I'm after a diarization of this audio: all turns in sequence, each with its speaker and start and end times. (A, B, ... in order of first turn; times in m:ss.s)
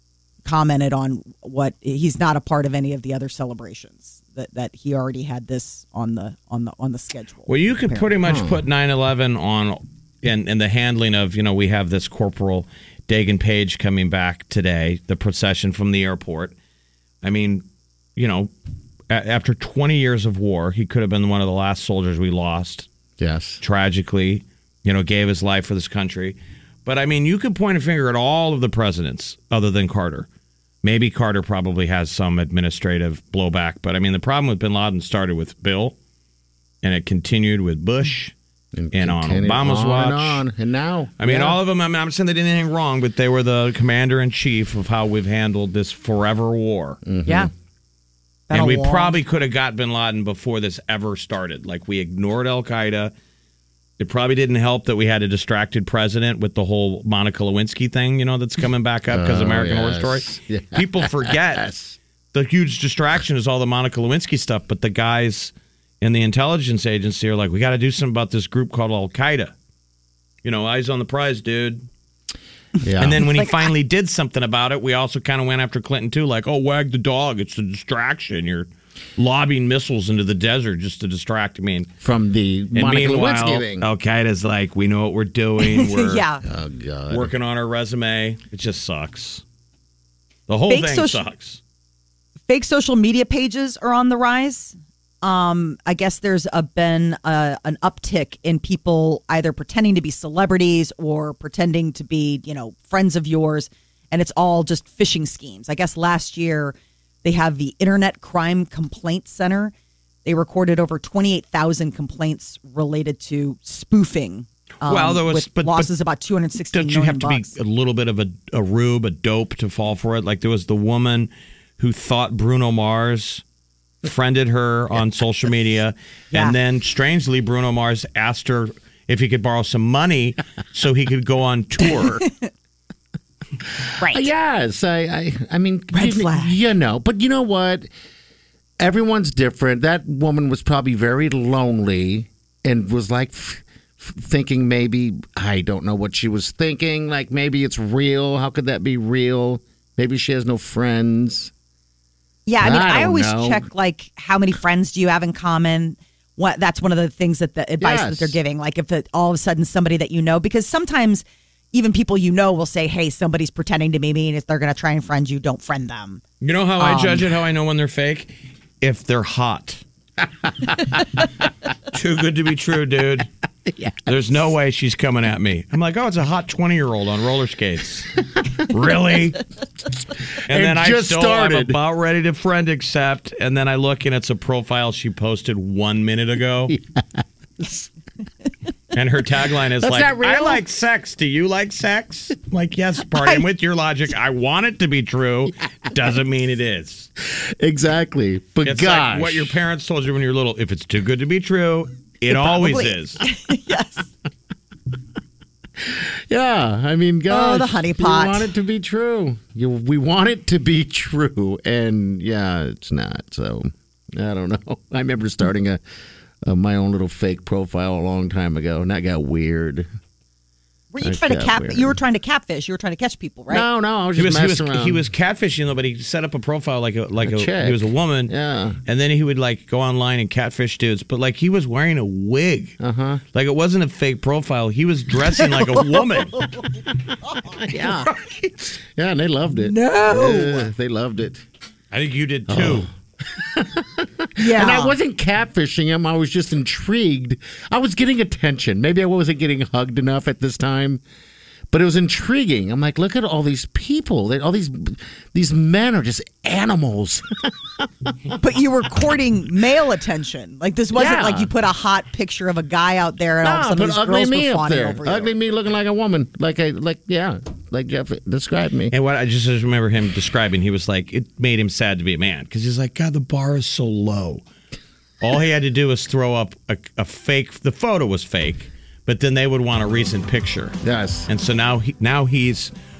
0:00.4-0:08.1 A
0:07.5-0:16.5 B
0:08.2-0:08.6 C
0:17.2-0:18.5 B
0:19.1-0:22.9 B
0:23.2-0:23.6 C
0:23.6-0:30.3 B
0:30.8-0:36.0 B
0:36.8-0:38.3 B
0:38.7-0:41.6 C
0:38.9-0:40.4 B
0:41.2-0:47.0 B
0:47.0-0:47.5 C
0:48.5-0:49.2 A
0:48.5-0:53.1 B
0:54.0-1:01.7 B
0:59.1-1:02.0 C
1:02.3-1:09.5 B
1:10.4-1:11.9 B
1:12.8-1:13.3 C
1:13.0-1:21.9 B
1:22.0-1:23.9 C
1:22.7-1:26.2 B
1:25.6-1:26.4 A
1:26.4-1:27.3 C
1:27.1-1:29.4 B
1:30.5-1:31.6 B
1:30.7-1:31.2 A
1:32.5-1:49.7 A
1:50.2-1:57.5 A
1:54.8-1:55.9 B
1:56.7-2:03.4 B
2:04.0-2:12.2 B
2:06.3-2:06.6 A
2:13.6-2:17.9 C
2:14.0-2:14.3 A
2:15.9-2:16.6 A
2:18.8-2:31.5 C
2:32.5-2:46.2 A
2:32.6-2:33.6 C
2:37.8-2:38.4 C
2:46.4-2:49.8 B
2:46.8-2:47.3 A
2:51.9-2:53.3 B
2:53.7-2:54.0 C
2:54.0-2:59.4 B
3:00.5-3:06.7 B
3:00.5-3:01.8 C
3:06.7-3:07.9 C
3:08.9-3:17.1 B
3:09.8-3:10.6 C
3:17.2-3:19.6 C
3:18.6-3:23.2 B
3:22.3-3:24.1 A
3:25.8-3:35.8 C
3:27.3-3:28.5 A
3:36.4-3:39.9 C
3:40.9-3:43.6 A
3:41.0-3:42.0 C
3:43.5-3:45.0 C
3:44.2-3:48.3 B
3:47.2-3:48.8 C
3:48.8-3:52.8 B
3:52.8-3:53.2 C
3:53.3-3:56.4 B
3:57.5-4:01.4 C
3:57.7-3:58.1 A
3:59.6-4:00.7 A
4:01.9-4:02.9 B
4:02.5-4:11.0 C
4:04.4-4:05.0 A
4:11.7-4:18.2 C
4:18.4-4:25.3 A
4:20.9-4:21.5 C
4:23.4-4:28.9 C
4:28.9-4:34.4 B
4:35.2-4:40.8 B
4:40.8-4:41.3 C
4:41.3-4:42.7 B